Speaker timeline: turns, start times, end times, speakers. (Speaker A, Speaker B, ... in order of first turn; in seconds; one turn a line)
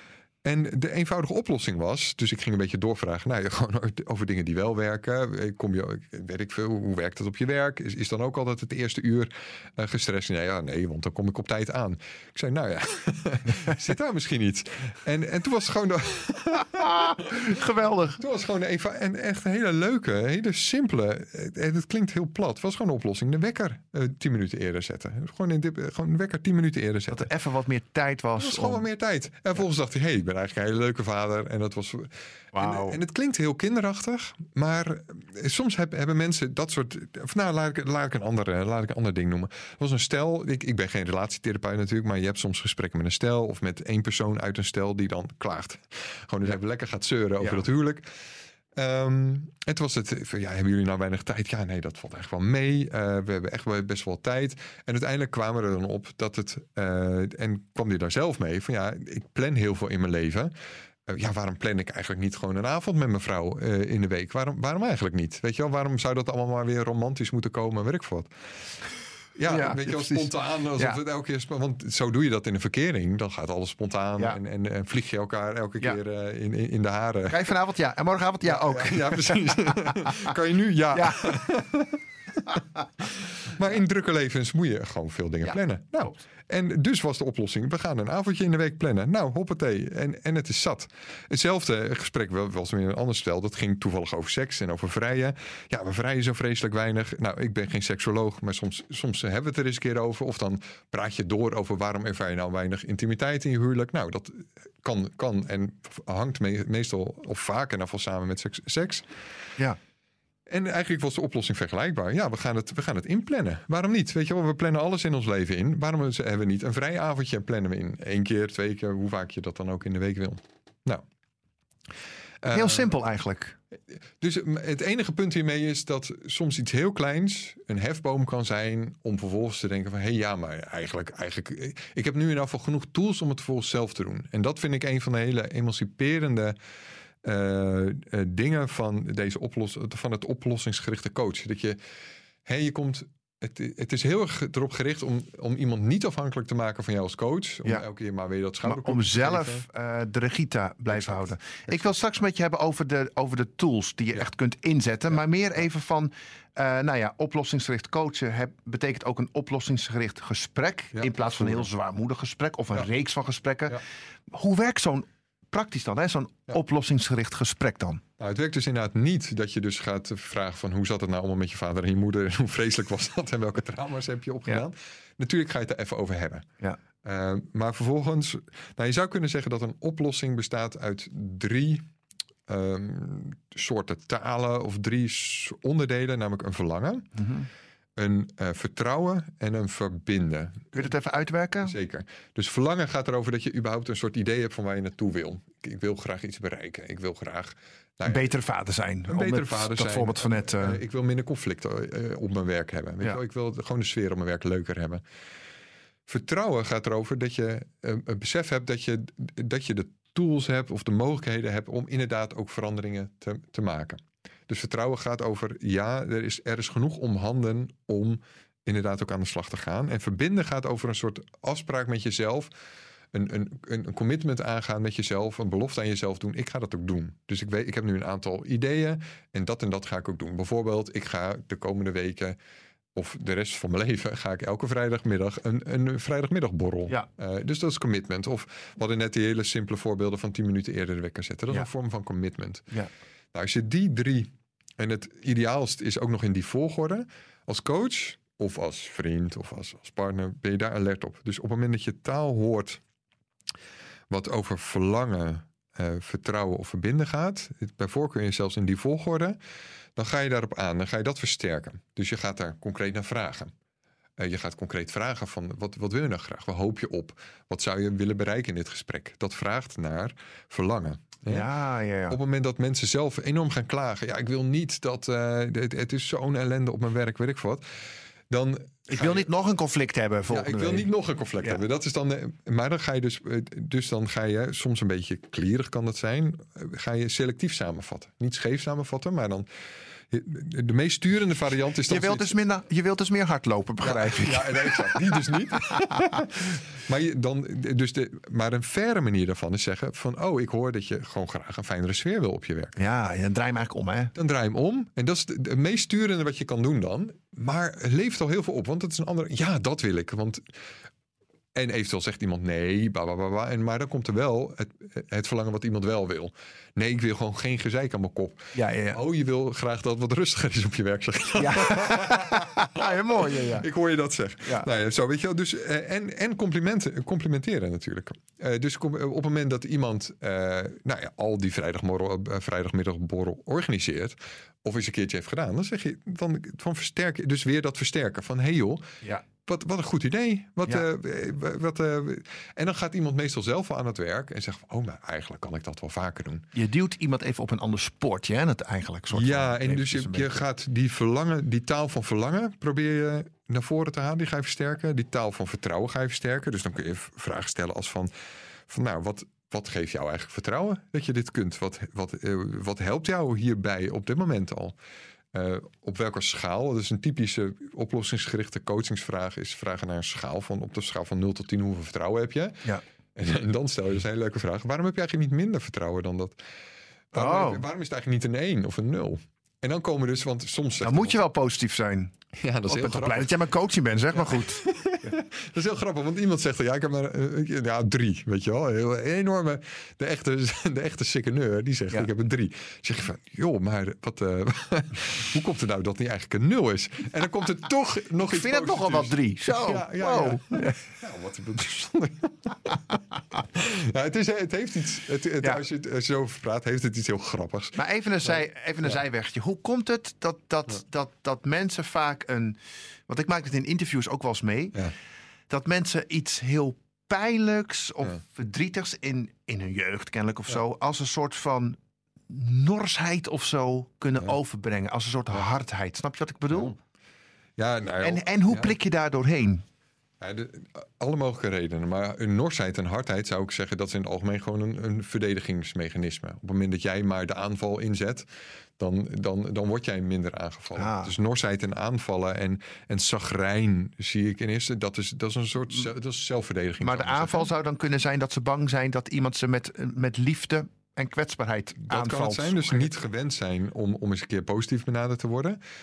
Speaker A: 0.4-17.4
Speaker B: 16.7-18.2
Speaker A: 18.2-27.3
Speaker B: 27.1-28.8
Speaker A: 28.4-48.0
Speaker B: 32.5-33.0
Speaker A: 48.7-60.5
Speaker A: 61.0-68.3
Speaker A: 69.3-77.5
Speaker B: 69.5-71.0
Speaker B: 77.3-80.3
Speaker A: 78.4-82.0
Speaker B: 80.9-81.4
Speaker A: 82.5-109.0
Speaker B: 85.4-86.2
Speaker A: 110.5-121.0
Speaker A: 122.4-122.9
Speaker B: 122.5-123.6
Speaker A: 123.9-136.6
Speaker A: 137.2-141.8
Speaker A: 142.4-149.6
Speaker B: 148.6-168.0
Speaker A: 150.9-151.9
Speaker A: 160.9-161.7
Speaker A: 168.2-176.5
Speaker A: 177.0-181.8
Speaker A: 182.5-187.1
Speaker B: 187.1-187.5
Speaker A: 187.9-190.8
Speaker B: 190.7-191.7
Speaker A: 191.6-198.3
Speaker B: 198.0-200.8
Speaker A: 199.1-205.0
Speaker A: 206.1-222.5
Speaker A: 223.1-232.4
Speaker A: 232.9-242.7
Speaker A: 243.3-252.8
Speaker A: 254.1-259.4
Speaker A: 259.9-263.5
Speaker A: 264.2-271.5
Speaker B: 271.3-272.2
Speaker A: 272.1-277.6
Speaker A: 278.3-279.3
Speaker B: 278.9-280.9
Speaker A: 280.3-289.5
Speaker A: 290.1-292.3
Speaker B: 291.9-296.1
Speaker A: 293.8-302.8
Speaker B: 302.8-304.1
Speaker A: 304.1-310.4
Speaker A: 311.5-346.5
Speaker B: 318.5-319.0
Speaker B: 321.4-323.6
Speaker B: 346.5-350.4
Speaker A: 349.1-358.1
Speaker A: 358.7-364.8
Speaker A: 365.3-376.4
Speaker A: 377.1-381.2
Speaker B: 377.1-377.6
Speaker B: 380.8-382.1
Speaker A: 382.4-383.4
Speaker B: 382.7-385.1
Speaker A: 384.1-408.9
Speaker B: 398.2-400.8
Speaker B: 407.8-414.8
Speaker B: 415.5-421.8
Speaker B: 422.3-426.8
Speaker A: 427.6-428.8
Speaker B: 428.0-429.6
Speaker A: 430.2-447.5
Speaker B: 440.8-441.1
Speaker B: 446.8-452.9
Speaker A: 451.8-455.6